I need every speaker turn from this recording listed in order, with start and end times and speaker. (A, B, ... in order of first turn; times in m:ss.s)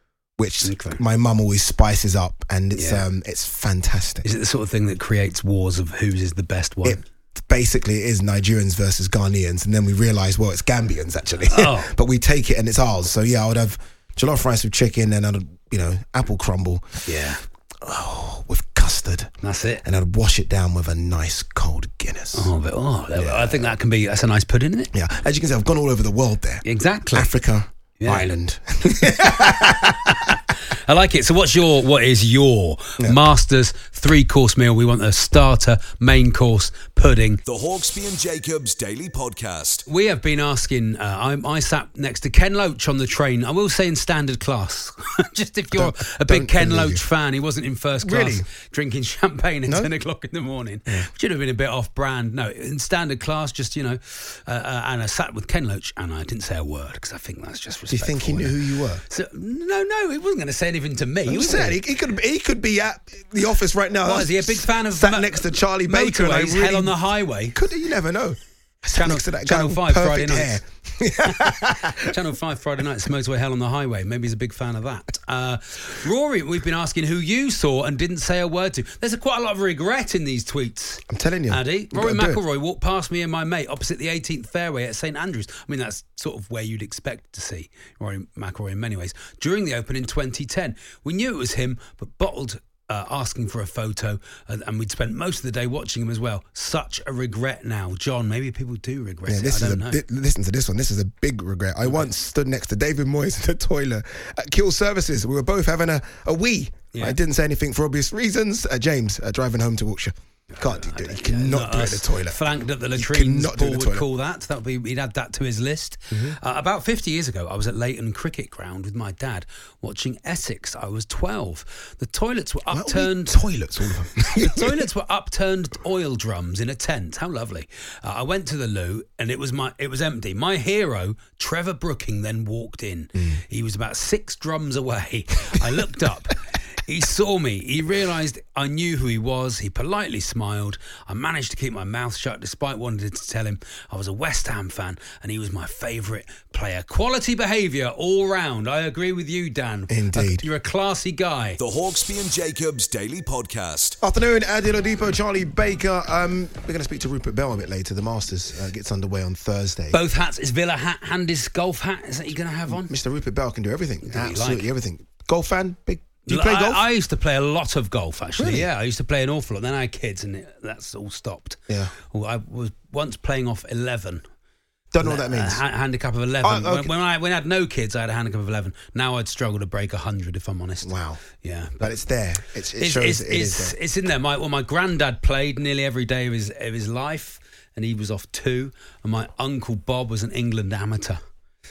0:00.4-0:04.2 A
0:00.6-0:01.0 B
0:02.7-0:03.0 B
0:04.2-0:07.0 B
0:06.8-0:17.0 A
0:11.5-0:11.9 B
0:17.0-0:17.4 B
0:17.8-0:22.5 A
0:19.4-0:19.8 B
0:22.3-0:24.9 B
0:23.1-0:23.7 A
0:24.9-0:30.3 A
0:26.6-0:27.3 B
0:28.0-0:28.3 B
0:29.1-0:37.4 B
0:37.4-0:39.8 C
0:39.9-0:58.6 B
0:45.7-0:47.0 A
0:48.0-0:48.5 A
0:57.9-0:59.0 A
0:59.1-1:01.8 B
1:01.3-1:07.0 A
1:04.0-1:07.6 B
1:07.5-1:12.1 A
1:08.9-1:10.6 B
1:11.3-1:40.0 B
1:21.1-1:22.4 A
1:39.2-1:54.0 A
1:50.5-2:03.4 B
1:56.1-1:56.4 A
2:02.7-2:04.9 A
2:04.3-2:31.6 B
2:13.1-2:13.4 A
2:15.6-2:15.9 A
2:29.9-2:30.4 A
2:31.6-2:34.0 C
2:34.0-2:40.0 A
2:39.9-2:42.9 B
2:42.7-2:46.8 A
2:44.0-2:44.7 B
2:46.3-2:51.6 B
2:48.4-2:48.7 A
2:51.7-2:51.9 A
2:52.1-2:54.2 B
2:54.9-2:55.6 A
2:55.0-3:01.9 B
2:56.4-2:56.9 A
3:00.8-3:01.2 A
3:01.8-3:03.8 A
3:02.8-3:11.2 B